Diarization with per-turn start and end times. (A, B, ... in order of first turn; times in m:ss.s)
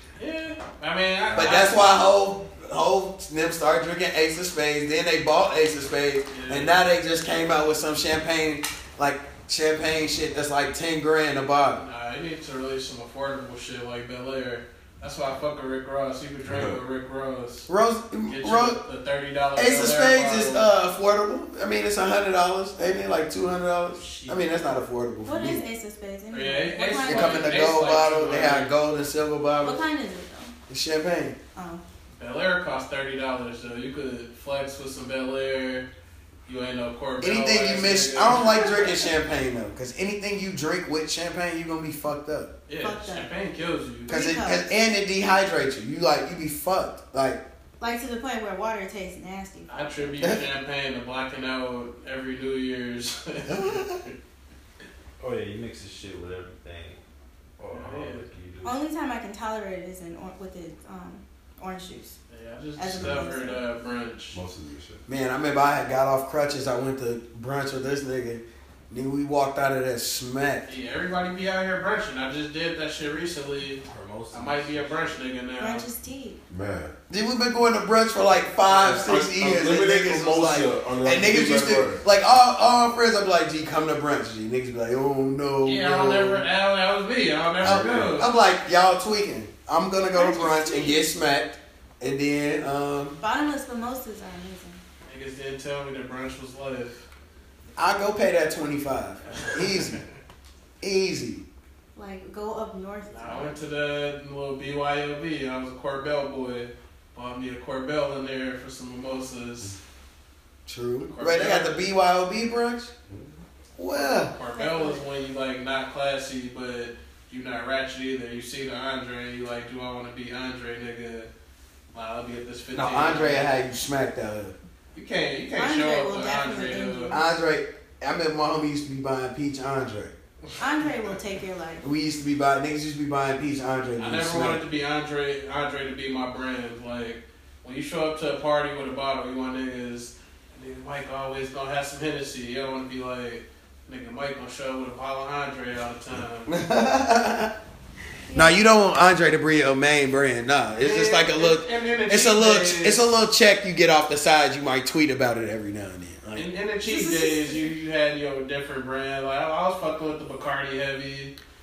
0:00.2-0:01.9 A
0:01.3-0:11.8 B
0:06.3-0:06.7 A
0:11.8-0:17.7 A
0:16.4-0:16.8 C
0:17.7-0:18.8 B
0:18.3-0:20.7 A
0:19.6-0:25.6 B
0:24.0-0:24.5 A
0:25.2-0:27.9 D
0:26.3-0:28.7 A
0:27.0-0:29.8 B
0:29.6-0:30.5 D
0:30.7-0:31.4 B
0:31.5-0:31.8 D
0:32.2-0:35.9 A
0:36.4-0:39.0 A
0:37.2-0:42.5 B
0:42.7-0:44.1 A
0:42.8-0:43.3 D
0:44.1-0:44.7 D
0:44.1-0:47.4 B
0:47.8-0:50.1 D
0:49.7-0:54.1 A
0:50.2-0:50.4 B
0:53.5-0:54.0 B
0:55.2-0:57.0 E
0:57.6-0:58.8 E
0:57.7-0:58.2 A
0:58.6-1:02.2 D
1:02.3-1:04.4 A
1:02.8-1:03.6 D
1:02.9-1:03.3 C
1:04.3-1:05.0 C
1:05.1-1:10.7 B
1:10.6-1:15.8 A
1:13.9-1:15.2 E
1:15.6-1:16.4 D
1:16.5-1:16.9 C
1:17.1-1:26.4 B
1:18.6-1:19.1 A
1:18.9-1:22.0 C
1:25.6-1:28.3 A
1:27.6-1:28.2 C
1:27.6-1:33.2 B
1:30.1-1:31.0 D
1:33.2-1:34.8 D
1:35.0-1:37.1 A
1:37.8-1:40.0 B
1:39.3-1:40.0 A
1:40.8-1:41.4 B
1:41.9-1:43.6 D
1:43.1-1:49.8 A
1:50.6-1:52.9 B
1:51.1-1:51.9 A
1:53.8-1:54.3 B
1:53.9-2:01.3 A
1:54.5-1:55.0 D
2:01.9-2:03.5 A
2:02.7-2:04.5 B
2:04.9-2:07.1 A
2:05.5-2:07.3 D
2:07.1-2:10.1 B
2:10.6-2:11.8 D
2:11.8-2:14.6 B
2:14.0-2:26.6 A
2:26.5-2:27.5 B
2:28.3-2:28.6 D
2:28.3-2:36.5 B
2:30.8-2:33.1 A
2:36.3-2:41.3 A
2:36.8-2:37.7 D